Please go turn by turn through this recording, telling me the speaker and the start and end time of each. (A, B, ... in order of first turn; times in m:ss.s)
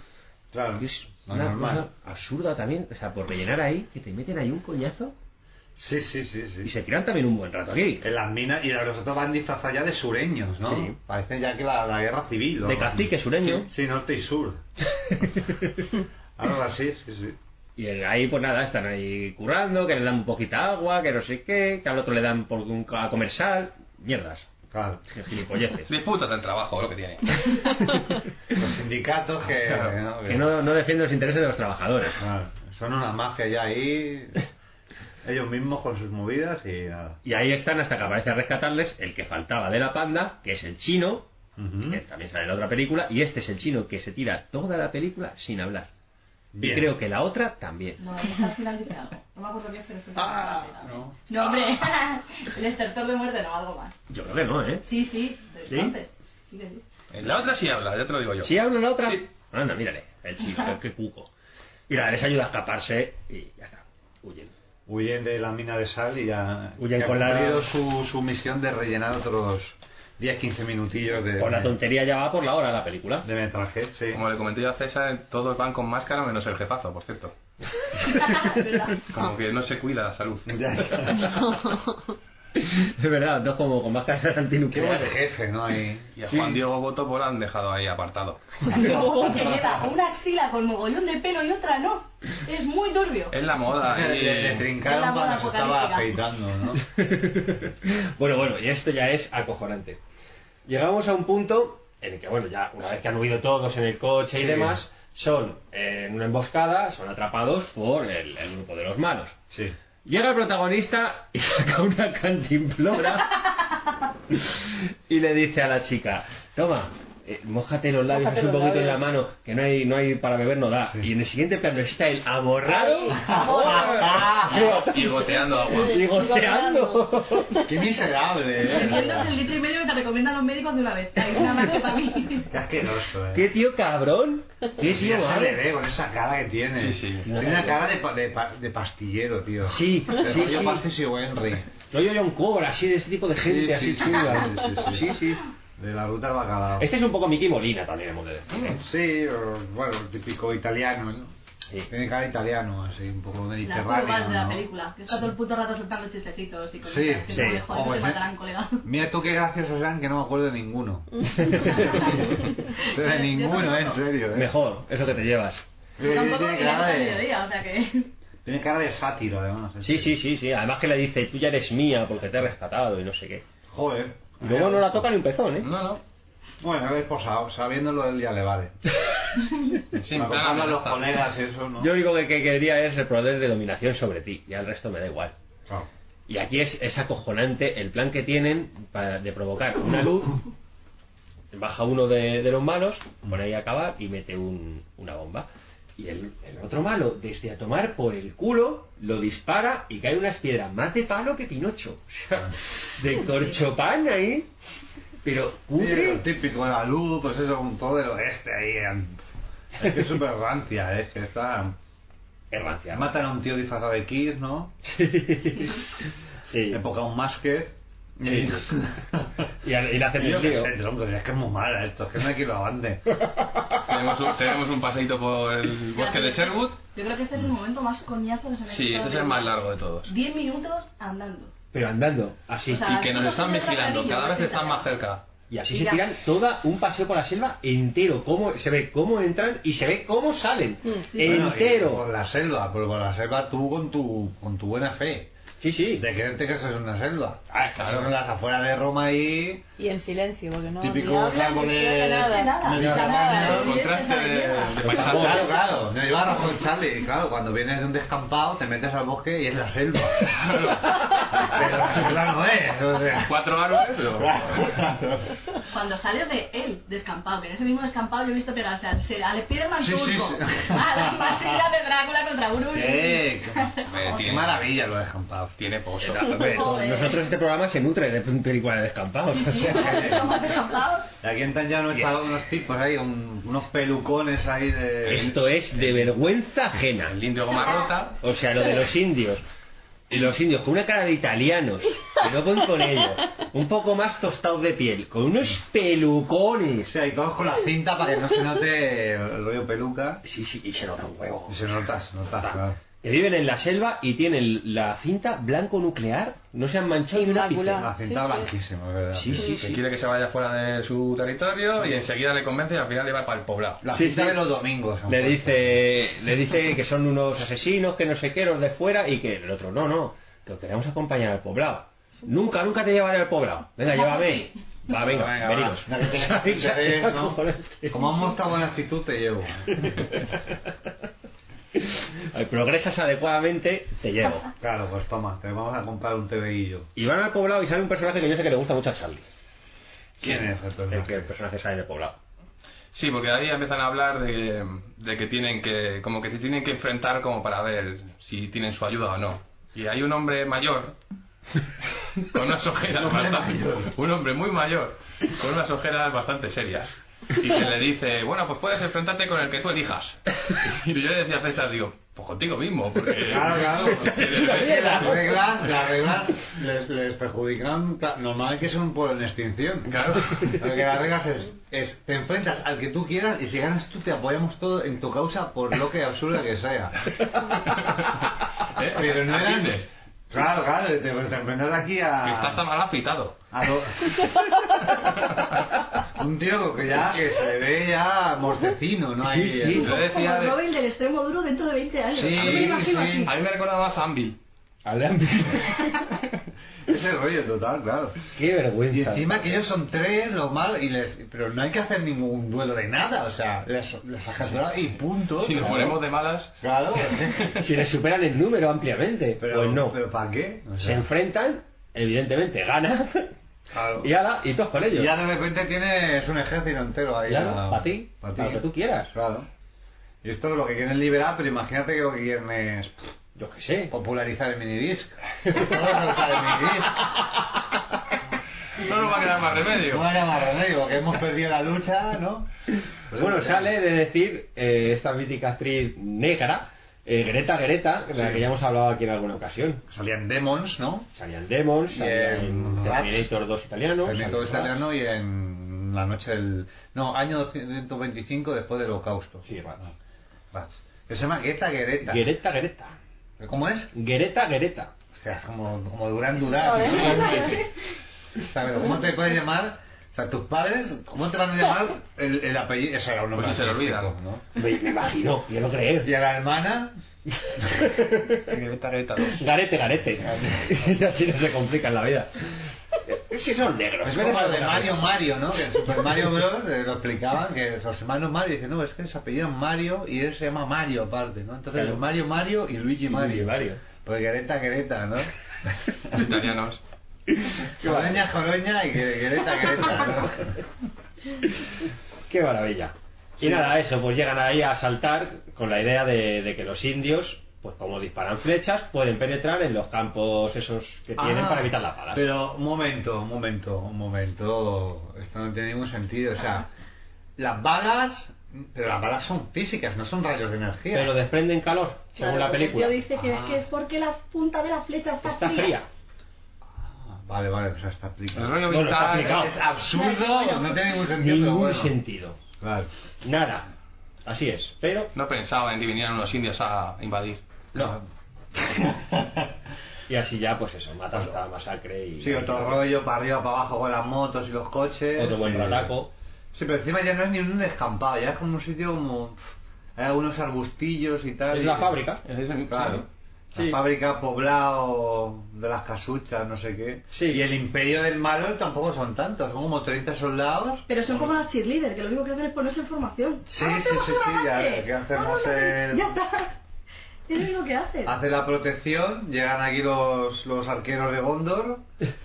0:00.5-0:01.8 A
0:00.8-0:05.1 B
0:05.8-0:06.7 A
0:06.6-0:08.0 B
0:08.0-0:14.6 A
0:10.6-0:11.0 B
0:12.6-0:13.7 B
0:15.0-0:15.8 B
0:16.4-0:17.4 A
0:17.8-0:24.5 B
0:24.7-0:25.0 A
0:25.1-0:25.9 B
0:25.9-0:27.9 C
0:28.5-0:30.6 A
0:30.2-0:32.2 B
0:32.2-0:34.4 A
0:35.2-0:37.2 A
0:37.2-0:41.2 B
0:41.6-0:42.0 A
0:41.9-0:45.9 B
0:46.5-0:46.9 A
0:46.6-0:48.0 B
0:48.0-0:54.0 D
0:50.1-0:51.1 A
0:54.1-0:54.8 B
0:54.8-0:56.8 D
0:55.7-0:55.9 B
0:57.1-0:59.2 C
0:58.4-1:01.3 B
1:01.9-1:04.5 B
1:04.9-1:11.7 A
1:06.8-1:07.7 B
1:11.2-1:13.2 B
1:13.2-1:14.2 A
1:14.1-1:17.3 C
1:18.1-1:19.0 D
1:19.1-1:21.1 C
1:20.5-1:21.3 A
1:22.6-1:25.2 B
1:24.7-1:26.1 A
1:26.2-1:29.3 C
1:26.3-1:26.6 B
1:28.7-1:33.3 D
1:33.3-1:34.7 C
1:33.8-1:36.8 A
1:34.8-1:36.1 D
1:37.0-1:40.0 B
1:40.7-1:49.4 B
1:44.4-1:44.8 A
1:50.0-1:53.4 B
1:54.3-2:07.7 B
1:58.1-1:59.1 E
2:02.7-2:03.4 E
2:03.1-2:04.7 A
2:04.3-2:06.1 C
2:05.3-2:07.4 E
2:07.6-2:09.3 A
2:08.6-2:12.5 D
2:12.5-2:13.5 A
2:13.3-2:15.6 B
2:14.8-2:21.7 A
2:16.8-2:17.3 C
2:17.2-2:17.8 B
2:19.7-2:20.8 B
2:21.9-2:25.4 B
2:23.4-2:25.2 A
2:25.8-2:26.9 A
2:26.8-2:28.8 B
2:28.7-2:31.3 A
2:31.9-2:34.6 A
2:33.6-2:38.8 D
2:36.8-2:38.2 A
2:37.3-2:37.6 B
2:38.8-2:44.5 A
2:41.4-2:42.1 B
2:41.7-2:44.0 D
2:44.3-2:45.6 B
2:46.0-2:47.3 A
2:46.0-2:48.1 D
2:48.4-2:50.2 A
2:49.8-2:53.4 B
2:53.7-2:55.0 A
2:54.4-2:55.7 B
2:55.6-2:56.0 C
2:56.6-2:58.8 A
3:00.0-3:01.1 C
3:00.1-3:01.9 A
3:01.8-3:05.3 B
3:06.3-3:10.4 B
3:11.5-3:24.5 B
3:25.2-3:26.2 B
3:25.8-3:29.2 A
3:29.8-3:31.8 A
3:32.5-3:33.2 B
3:32.9-3:34.7 A
3:34.8-3:35.8 B
3:36.4-3:36.8 B
3:36.7-3:39.5 A
3:38.2-3:38.7 B
3:39.6-3:40.7 B
3:40.1-3:43.0 A
3:43.2-3:43.6 B
3:43.8-3:46.8 C
3:45.9-3:51.5 D
3:48.6-3:50.1 C
3:51.7-3:53.1 B
3:52.7-3:54.9 D
3:52.8-3:55.2 C
3:55.5-4:02.0 B
3:55.7-3:56.0 D
4:01.1-4:01.5 D
4:01.2-4:05.3 A
4:05.6-4:06.0 B
4:05.9-4:09.6 A
4:07.5-4:07.8 B
4:07.8-4:08.1 C
4:09.8-4:13.5 E
4:10.8-4:13.8 A
4:12.0-4:14.9 D
4:12.8-4:15.6 C
4:14.8-4:15.6 B
4:14.9-4:20.3 A
4:20.3-4:22.0 C
4:21.4-4:23.3 A
4:23.2-4:24.4 C
4:24.1-4:25.6 A
4:25.7-4:34.2 D
4:29.8-4:31.6 A
4:32.7-4:35.5 A
4:33.9-4:34.7 C
4:35.6-4:36.4 C
4:36.0-4:40.1 B
4:36.3-4:37.2 D
4:39.3-4:41.1 D
4:39.5-4:40.4 A
4:41.2-4:45.4 A
4:45.1-4:47.2 B
4:47.0-4:48.2 C
4:48.2-4:49.4 B
4:50.1-4:56.9 B
4:56.9-5:00.2 A
5:00.2-5:01.6 B
5:01.5-5:02.8 A
5:02.4-5:07.9 B
5:07.1-5:08.5 E
5:07.7-5:09.6 A
5:09.1-5:09.8 B
5:09.4-5:13.8 C
5:13.8-5:15.9 A
5:13.9-5:14.4 B
5:15.1-5:28.3 B
5:23.8-5:24.6 D
5:24.9-5:30.2 A
5:29.7-5:30.4 B
5:31.7-5:34.5 B
5:34.6-5:36.9 A
5:37.0-5:39.2 B
5:40.2-5:41.3 A
5:40.2-5:42.2 B
5:42.9-5:51.0 C
5:52.0-6:05.1 C
5:53.0-5:53.9 A
6:03.2-6:17.0 A
6:03.8-6:05.4 B
6:09.9-6:10.6 C
6:17.4-6:19.8 C
6:18.8-6:22.6 A
6:22.2-6:23.4 C
6:23.5-6:24.7 A
6:26.1-6:29.9 A
6:29.2-6:29.9 B
6:29.7-6:30.6 C
6:29.7-6:33.3 D
6:32.1-6:33.3 A
6:32.3-6:34.4 C
6:34.8-6:35.9 B
6:36.8-6:38.2 A
6:38.3-6:39.6 B
6:38.9-6:46.0 A
6:45.4-6:46.5 C
6:46.6-6:47.7 A
6:47.5-6:50.0 B
6:49.4-6:51.1 A
6:50.8-6:53.3 B
6:53.7-6:54.1 A
6:54.0-6:55.1 B
6:54.9-6:59.5 A
6:57.3-6:59.1 B
7:00.2-7:03.0 A
7:03.4-7:03.9 B
7:03.9-7:07.1 A
7:05.5-7:05.8 B
7:08.8-7:10.1 C
7:08.9-7:12.5 A
7:13.1-7:13.7 A
7:13.1-7:19.8 B
7:18.1-7:18.4 A
7:19.9-7:21.1 A
7:21.1-7:24.9 B
7:21.9-7:23.3 A
7:24.0-7:29.9 A
7:29.4-7:29.8 B
7:30.5-7:32.3 A
7:32.0-7:32.9 B
7:33.4-7:33.9 A
7:33.9-7:34.9 B
7:35.1-7:37.6 A
7:36.6-7:37.2 E
7:36.8-7:37.6 C
7:37.1-7:37.5 D
7:38.3-7:44.4 A
7:43.3-7:44.1 C
7:44.6-7:46.1 B
7:46.0-7:46.9 A
7:47.4-7:48.5 B
7:48.5-7:49.4 C
7:49.2-7:52.5 B
7:50.2-7:50.7 A
7:53.0-7:55.1 B
7:54.0-8:05.3 A
8:01.7-8:02.0 B
8:03.1-8:03.8 B
8:05.9-8:06.2 A
8:06.1-8:06.8 C
8:07.3-8:08.3 B
8:07.8-8:10.6 A
8:12.3-8:22.3 B
8:13.4-8:13.7 A
8:21.2-8:26.6 A
8:27.4-8:31.2 A
8:30.9-8:33.0 B
8:32.2-8:35.8 D
8:33.1-8:33.6 A
8:35.2-8:35.9 B
8:36.8-8:41.9 A
8:38.3-8:39.5 C
8:38.7-8:39.5 B
8:39.9-8:41.0 D
8:41.1-8:42.4 B
8:42.6-8:42.9 A
8:43.2-8:43.6 B
8:44.2-8:45.1 B
8:45.1-8:47.4 C
8:47.7-8:49.5 A
8:50.1-8:52.8 B
8:52.2-8:56.0 A
8:55.2-8:56.1 B
8:56.5-8:59.4 A
9:00.0-9:02.0 A
9:01.5-9:02.2 B
9:02.2-9:03.0 C
9:02.7-9:11.4 A
9:07.1-9:07.5 B
9:10.9-9:16.5 D
9:13.5-9:16.2 A
9:17.3-9:18.1 D
9:18.0-9:21.8 A